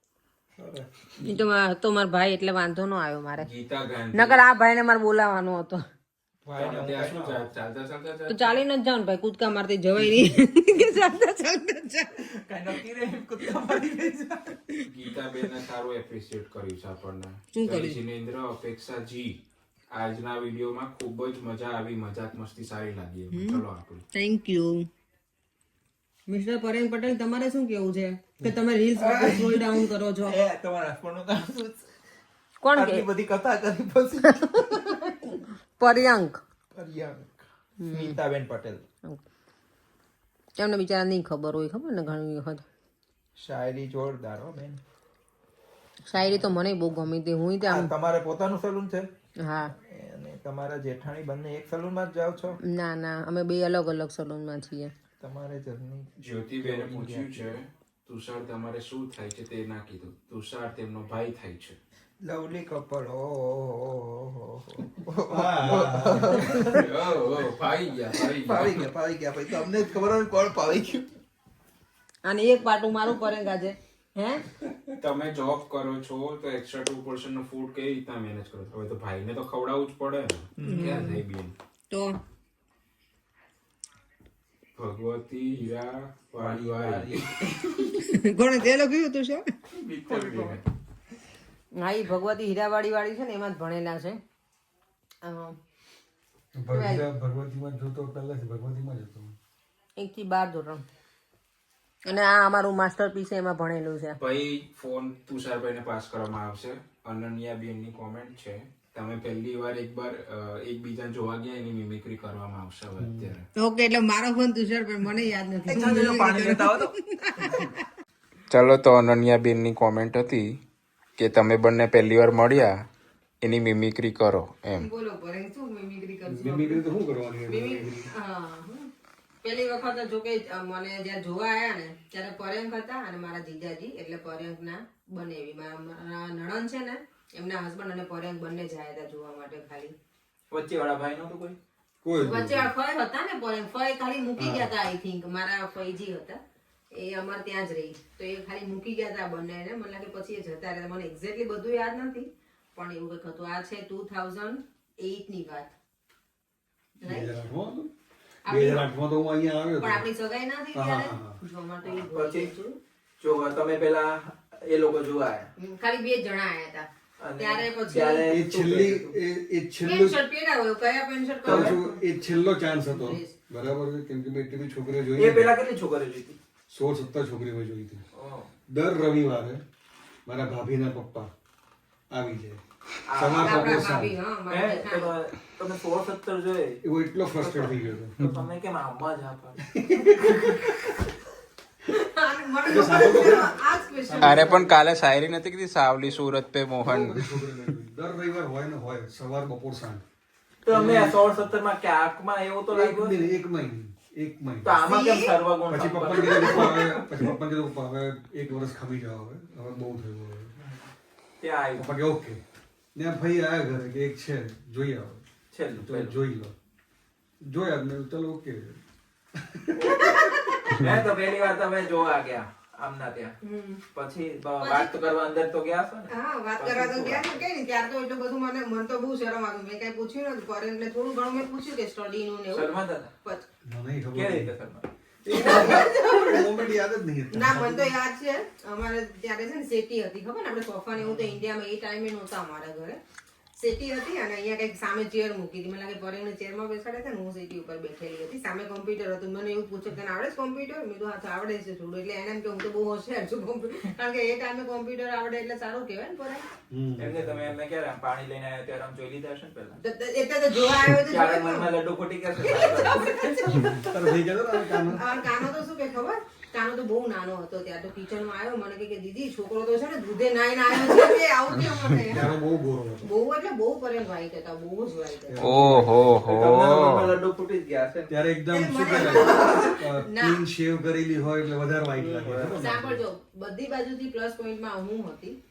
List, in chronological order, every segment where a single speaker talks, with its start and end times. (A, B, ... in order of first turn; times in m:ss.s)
0:00.6-0:00.8 A
0:01.2-0:03.5 B
0:03.4-0:04.4 C
0:04.1-0:05.8 B
0:06.4-0:07.4 A
0:06.6-0:08.6 C
0:08.3-0:12.2 B
0:12.2-0:14.6 A
0:14.8-0:19.4 C
0:17.5-0:18.0 B
0:19.9-0:24.0 C
0:23.3-0:23.6 B
0:24.1-0:24.9 B
0:26.3-0:30.4 B
0:29.0-0:31.9 A
0:32.6-0:33.1 B
0:32.7-0:34.4 A
0:34.2-0:36.4 B
0:36.7-0:38.8 A
0:37.8-0:38.2 B
0:40.6-0:42.6 B
0:43.4-0:44.8 A
0:46.1-0:47.9 B
0:47.6-0:49.1 A
0:49.4-0:49.7 B
0:49.8-0:52.6 A
0:52.6-0:54.9 B
0:55.2-0:57.5 A
0:56.2-1:01.8 C
1:02.2-1:06.8 A
1:05.3-1:06.6 D
1:06.7-1:08.8 C
1:08.1-1:11.1 A
1:12.2-1:14.5 B
1:15.0-1:21.5 C
1:20.6-1:21.2 A
1:20.6-1:21.1 B
1:21.9-1:22.2 B
1:24.8-1:27.3 C
1:26.4-1:27.3 A
1:27.5-1:29.5 B
1:29.7-1:30.6 C
1:30.1-1:30.5 B
1:30.2-1:30.6 A
1:31.8-1:34.2 B
1:35.2-1:35.6 B
1:36.5-1:39.4 D
1:36.7-1:37.0 B
1:40.0-1:40.8 B
1:42.0-1:44.2 B
1:44.2-1:53.4 C
1:53.0-1:53.3 D
1:53.6-1:57.8 B
1:55.7-1:57.6 A
1:58.5-2:00.5 C
2:01.2-2:02.7 C
2:03.4-2:04.9 C
2:04.7-2:06.8 B
2:06.3-2:08.1 D
2:07.5-2:08.9 B
2:09.4-2:19.9 B
2:20.5-2:21.6 A
2:22.0-2:22.7 D
2:22.2-2:26.4 B
2:24.4-2:24.7 D
2:26.9-2:35.7 B
2:37.0-2:37.4 B
2:37.0-2:37.9 D
2:38.4-2:38.9 B
2:38.5-2:40.0 D
2:39.8-2:42.8 B
2:40.7-2:41.4 D
2:41.8-2:42.5 A
2:43.2-2:45.5 A
2:45.6-2:48.3 B
2:47.2-2:49.1 A
2:48.2-2:50.2 D
2:49.8-2:51.8 B
2:51.4-2:52.0 A
2:51.4-2:55.5 D
2:52.9-2:53.3 B
2:55.2-2:56.4 A
2:56.7-2:58.0 D
2:58.1-2:58.5 A
2:58.7-2:59.6 D
3:00.2-3:01.3 D
3:02.1-3:04.2 D
3:03.0-3:03.9 A
3:03.4-3:05.1 B
3:04.5-3:06.8 A
3:06.8-3:08.2 D
3:07.3-3:09.6 A
3:09.6-3:10.9 D
3:10.1-3:10.6 A
3:11.9-3:14.7 B
3:12.7-3:14.7 D
3:14.2-3:17.5 C
3:16.8-3:20.0 D
3:20.6-3:23.2 A
3:20.7-3:21.4 D
3:22.7-3:24.7 D
3:24.6-3:27.3 A
3:24.8-3:25.4 B
3:25.7-3:30.5 D
3:26.2-3:26.8 B
3:30.6-3:30.9 A
3:31.4-3:31.9 A
3:31.8-3:32.4 D
3:32.9-3:36.5 D
3:35.5-3:36.2 A
3:37.4-3:38.8 D
3:39.3-3:40.2 D
3:39.8-3:40.0 A
3:40.0-3:40.8 B
3:40.8-3:43.4 A
3:43.4-3:43.8 B
3:43.9-3:47.4 A
3:44.6-3:44.9 B
3:46.1-3:52.7 B
3:52.5-3:53.1 A
3:53.6-3:54.5 D
3:54.1-3:54.9 A
3:55.2-3:57.9 D
3:55.3-3:56.6 B
3:57.3-4:03.0 B
4:01.0-4:01.3 A
4:03.6-4:16.4 B
4:16.7-4:17.5 D
4:17.0-4:19.8 A
4:19.8-4:21.8 B
4:21.0-4:23.9 A
4:22.4-4:23.7 B
4:23.6-4:25.0 D
4:24.9-4:32.3 B
4:32.0-4:33.1 D
4:33.0-4:35.5 B
4:35.3-4:36.1 D
4:35.4-4:37.1 C
4:36.2-4:38.1 A
4:38.1-4:43.0 D
4:38.5-4:40.4 B
4:39.1-4:39.7 A
4:42.0-4:42.6 A
4:42.6-4:45.4 B